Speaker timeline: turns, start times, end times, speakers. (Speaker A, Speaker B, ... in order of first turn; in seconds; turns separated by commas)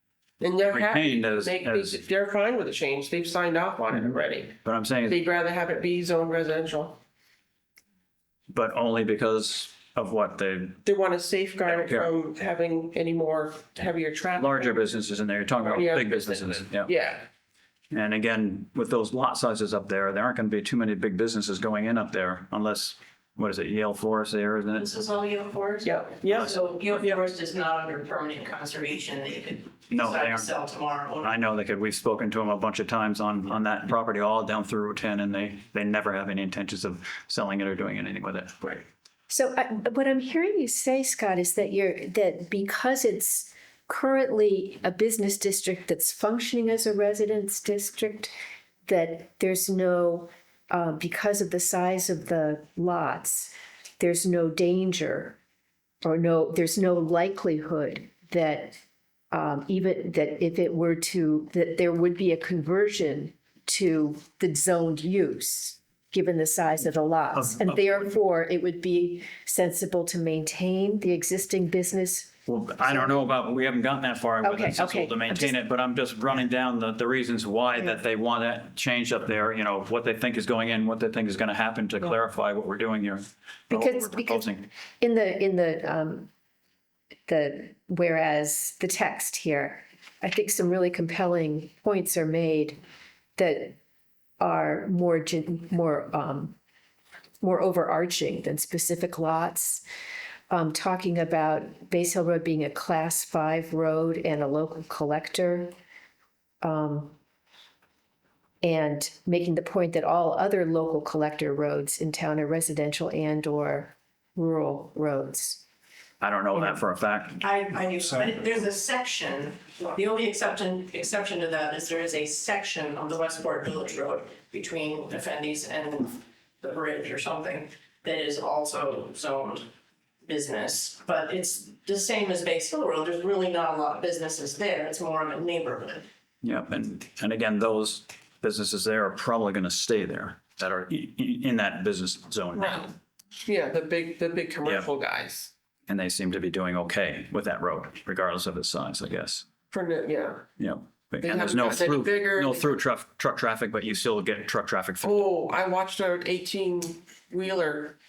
Speaker A: 0.4-7.0, Speaker B: 0.7-2.0, Speaker B: 4.6-5.2, Speaker B: 8.5-10.8, Speaker A: 10.8-14.9, Speaker B: 11.7-12.1, Speaker B: 14.4-16.9, Speaker A: 15.7-17.2, Speaker B: 17.9-24.9, Speaker C: 24.8-31.3, Speaker A: 25.8-27.2, Speaker B: 29.9-30.5, Speaker B: 31.2-38.7, Speaker D: 39.3-48.3, Speaker D: 48.9-55.4, Speaker D: 56.0-58.8, Speaker D: 59.3-72.3, Speaker B: 67.3-68.1, Speaker B: 72.5-84.7, Speaker D: 72.8-73.2, Speaker D: 74.4-75.6, Speaker D: 83.7-84.5, Speaker D: 85.0-86.3, Speaker D: 87.3-92.8, Speaker D: 93.4-93.8, Speaker D: 94.4-96.6, Speaker D: 97.4-99.8, Speaker D: 100.5-105.7, Speaker D: 106.6-107.2, Speaker D: 108.6-115.6, Speaker B: 116.2-117.4, Speaker C: 117.4-129.7, Speaker C: 130.3-136.1, Speaker B: 136.4-142.9, Speaker A: 142.5-142.9, Speaker A: 143.5-145.5, Speaker B: 144.6-144.9, Speaker B: 145.9-149.5, Speaker A: 149.7-150.5, Speaker B: 150.6-155.3, Speaker A: 151.2-152.8, Speaker A: 155.0-158.0